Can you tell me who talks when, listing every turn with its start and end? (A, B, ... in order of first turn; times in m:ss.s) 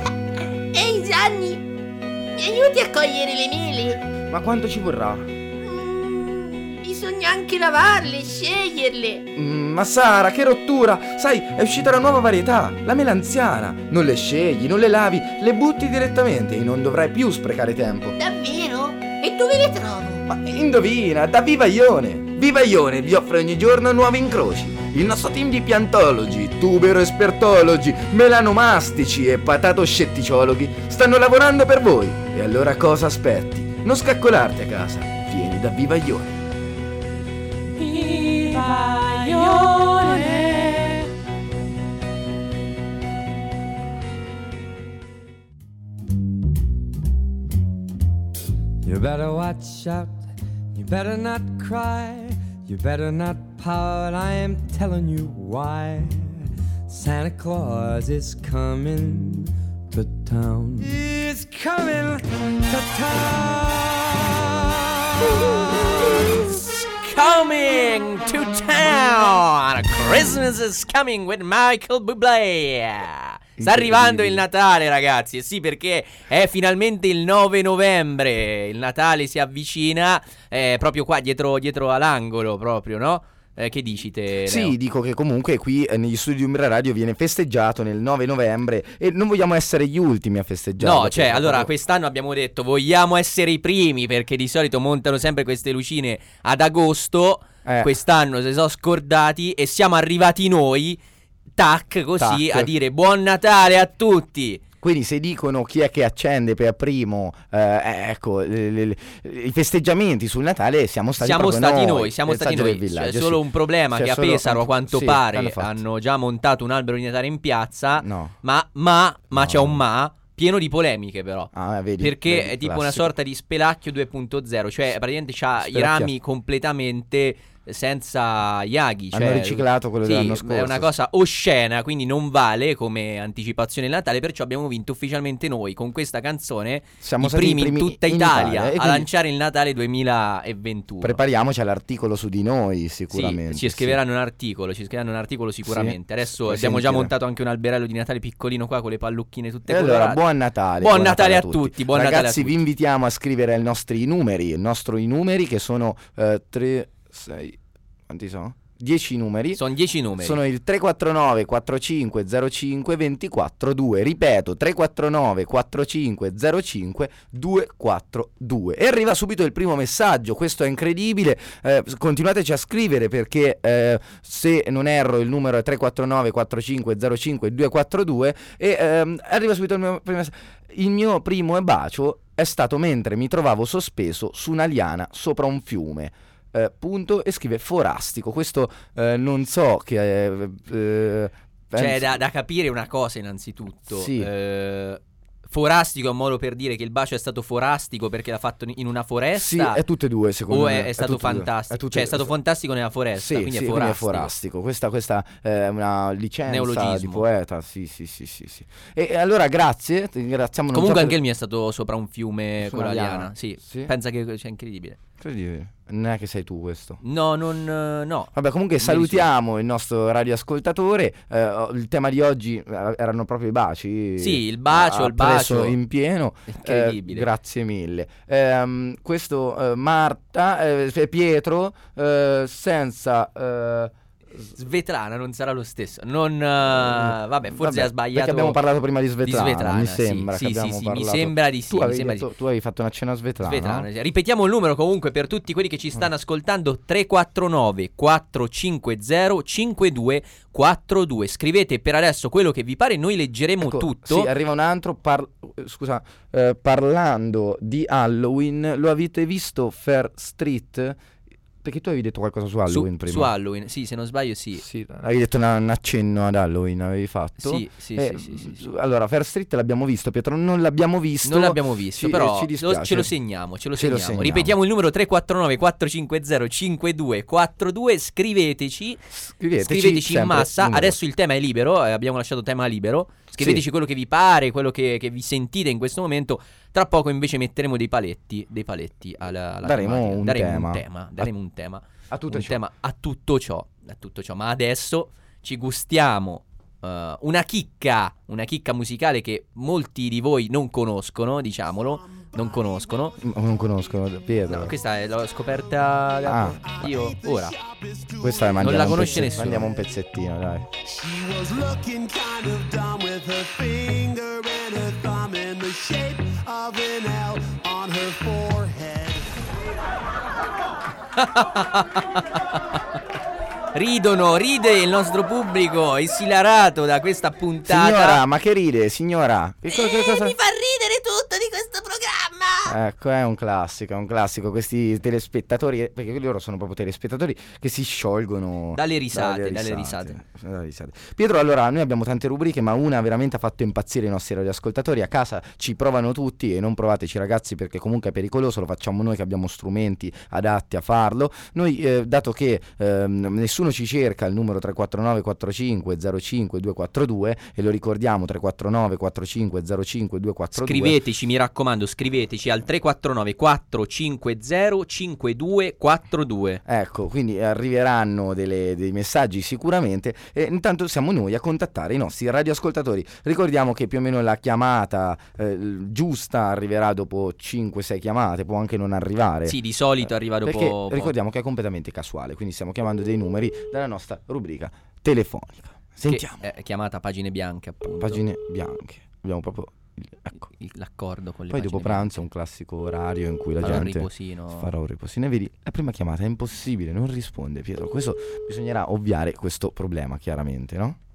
0:00.7-0:01.7 A
0:02.3-0:04.0 A
0:04.3-0:05.3 B
0:05.6-0:09.2 A
0:09.4-0:18.2 B
0:18.2-0:20.2 A
0:20.3-0:36.4 B
0:37.8-0:41.1 A
0:48.8-1:06.5 C
1:06.3-1:24.7 D
1:13.6-1:14.4 B
1:24.4-1:31.7 B
1:30.8-1:41.0 D
1:37.6-1:37.9 B
1:41.6-1:44.6 D
1:42.2-1:42.7 B
1:44.8-1:55.8 B
1:51.2-2:21.2 D
1:58.0-1:58.4 B
1:59.3-1:59.8 B
2:01.5-2:03.1 B
2:05.6-2:06.1 B
2:09.1-2:10.9 B
2:17.0-2:19.1 B
2:21.0-2:24.0 B
2:23.1-2:30.2 D
2:25.6-2:27.1 B
2:29.7-2:39.6 B
2:30.8-2:32.6 D
2:39.5-2:40.4 D
2:40.2-3:12.2 B
3:11.7-3:19.8 D
3:13.9-3:14.3 B
3:19.4-3:22.3 B
3:20.5-3:24.3 D
3:23.2-3:31.2 B
3:26.5-3:27.3 D
3:30.7-3:35.0 D
3:32.6-3:33.9 B
3:35.2-3:37.0 B
3:37.0-3:39.3 D
3:38.3-3:54.5 B
3:44.2-3:45.8 D
3:46.5-3:47.3 D
3:54.6-3:58.6 D
3:56.7-4:03.9 B
3:59.2-4:02.3 D
4:03.4-4:14.3 D
4:13.6-4:21.0 B
4:21.6-4:23.3 B
4:22.7-4:24.6 D
4:24.6-4:33.1 B
4:27.4-4:28.7 D
4:31.2-4:39.1 D
4:33.7-4:34.6 B
4:39.1-4:41.0 B
4:39.6-5:03.2 D
4:43.4-4:43.6 B
4:49.6-4:51.3 B
4:52.1-4:52.6 B
5:02.0-5:03.1 E
5:03.2-5:04.7 B
5:04.5-5:07.6 D
5:06.2-5:06.6 B
5:06.6-5:09.8 E
5:08.2-5:10.7 B
5:08.6-5:09.7 D
5:10.8-5:19.4 E
5:21.2-5:22.8 D
5:23.7-5:28.2 D
5:27.7-5:30.4 B
5:29.7-5:32.7 A
5:32.7-6:01.0 B
5:38.8-5:40.2 D
6:00.6-6:06.6 D
6:06.6-6:26.4 B
6:19.4-6:21.1 D
6:26.1-6:28.2 D
6:28.0-6:30.5 B
6:30.4-6:32.1 D
6:31.5-6:41.0 B
6:33.6-6:34.7 D